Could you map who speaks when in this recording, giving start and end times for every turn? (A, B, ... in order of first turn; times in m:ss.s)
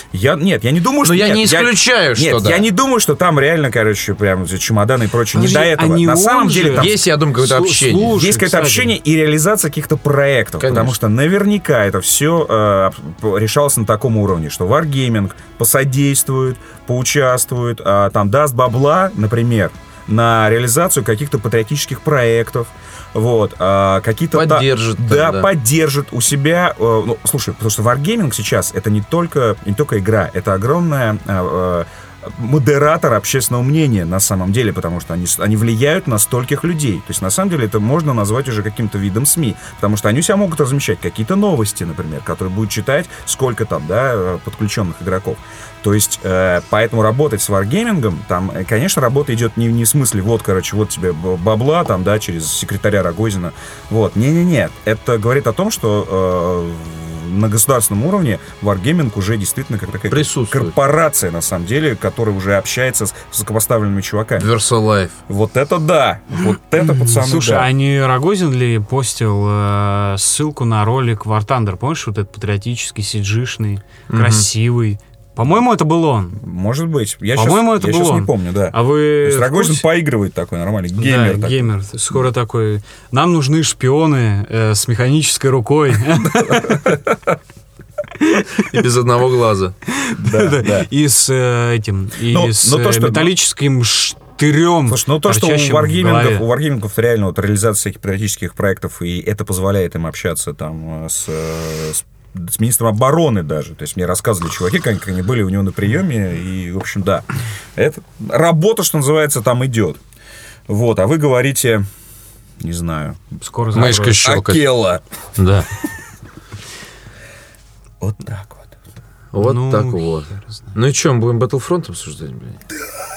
0:00.1-0:07.0 A
0:01.0-0:02.6 B
0:05.3-0:08.9 C
0:06.7-0:08.2 B
0:08.0-1:04.5 A
0:10.6-0:10.9 B
0:24.3-0:25.5 B
1:00.1-1:00.7 B
1:04.4-1:05.2 B
1:05.3-1:07.7 A
1:06.8-1:16.4 C
1:14.1-1:14.4 B
1:16.4-1:21.7 A
1:17.3-1:19.8 C
1:21.0-1:26.9 C
1:26.2-1:27.2 A
1:28.2-1:28.5 C
1:28.7-1:29.7 B
1:29.9-1:36.4 C
1:30.2-1:30.9 A
1:32.2-1:33.3 A
1:34.8-1:50.0 A
1:50.7-1:51.8 A
1:52.6-1:53.2 A
1:53.4-1:54.2 C
1:53.7-1:54.6 B
1:53.7-1:55.0 A
1:55.4-1:55.7 B
1:58.0-1:58.8 A
1:59.3-2:02.6 B
1:59.4-2:00.7 C